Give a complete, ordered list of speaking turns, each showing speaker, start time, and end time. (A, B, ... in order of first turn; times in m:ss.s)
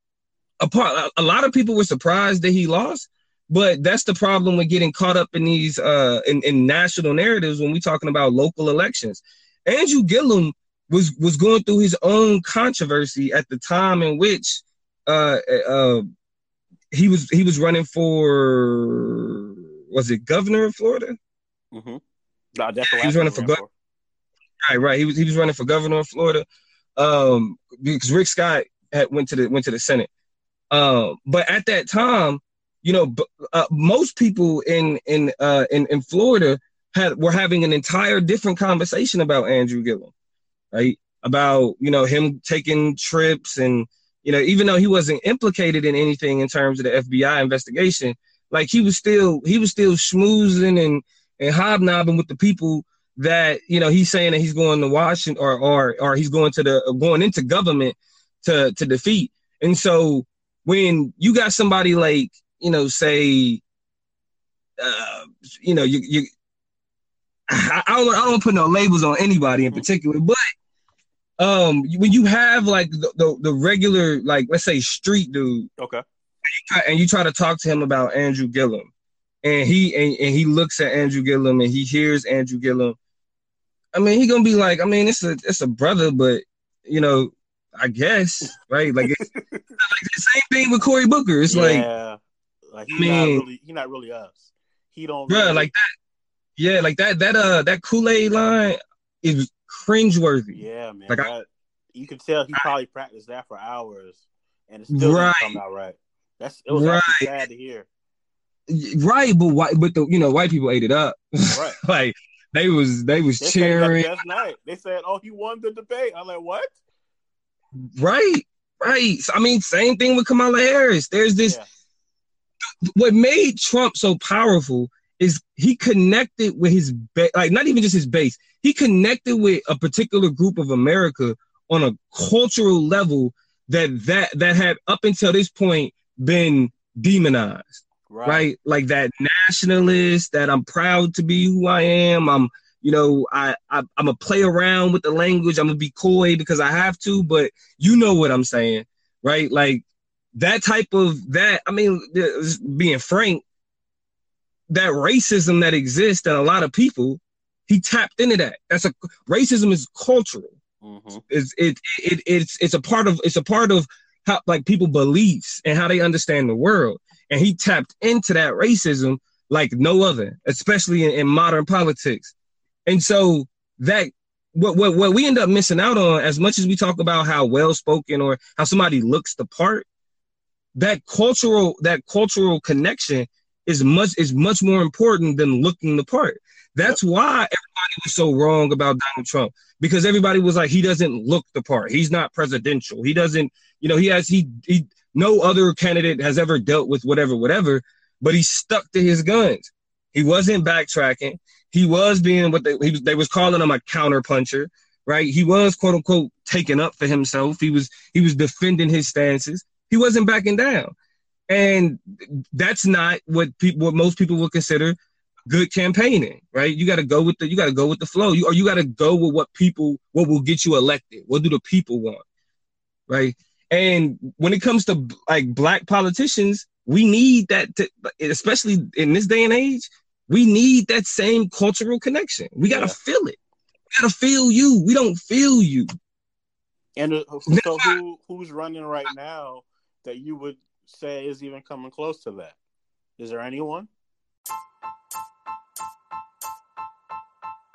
0:00.6-0:16.0 A
0:16.9-0:21.2 A
0:21.7-0:22.0 B
0:22.6-0:23.7 B
0:22.8-0:23.6 A
0:24.6-0:30.1 A
0:30.7-0:40.1 A
0:40.7-1:03.6 A
1:04.8-1:06.3 A
1:07.5-1:10.4 A
1:11.4-1:15.7 A
1:15.8-1:16.0 B
1:16.5-1:18.9 A
1:19.4-1:23.0 A
1:23.9-1:29.2 A
1:29.0-1:29.6 B
1:29.8-1:31.8 A
1:31.5-1:32.2 B
1:32.7-1:35.7 B
1:32.9-1:33.4 A
1:35.3-1:35.9 A
1:36.6-1:41.3 A
1:40.5-1:47.9 B
1:44.9-1:45.6 A
1:46.7-1:47.3 A
1:48.7-1:54.4 A
1:51.5-1:51.8 B
1:53.4-1:56.8 B
1:58.0-2:01.6 A
2:02.9-2:29.8 A
2:18.1-2:18.5 B
2:30.3-2:33.4 A
2:34.7-2:40.6 A
2:40.8-2:41.2 B
2:41.3-2:52.3 A
2:52.8-2:59.8 A
3:00.7-3:30.9 A
3:31.5-3:35.0 A
3:35.5-3:42.2 A
3:43.1-3:53.4 A
3:52.7-3:53.0 B
3:53.9-3:55.9 A
3:57.0-4:02.6 B
3:57.5-3:58.0 A
4:03.2-4:03.9 B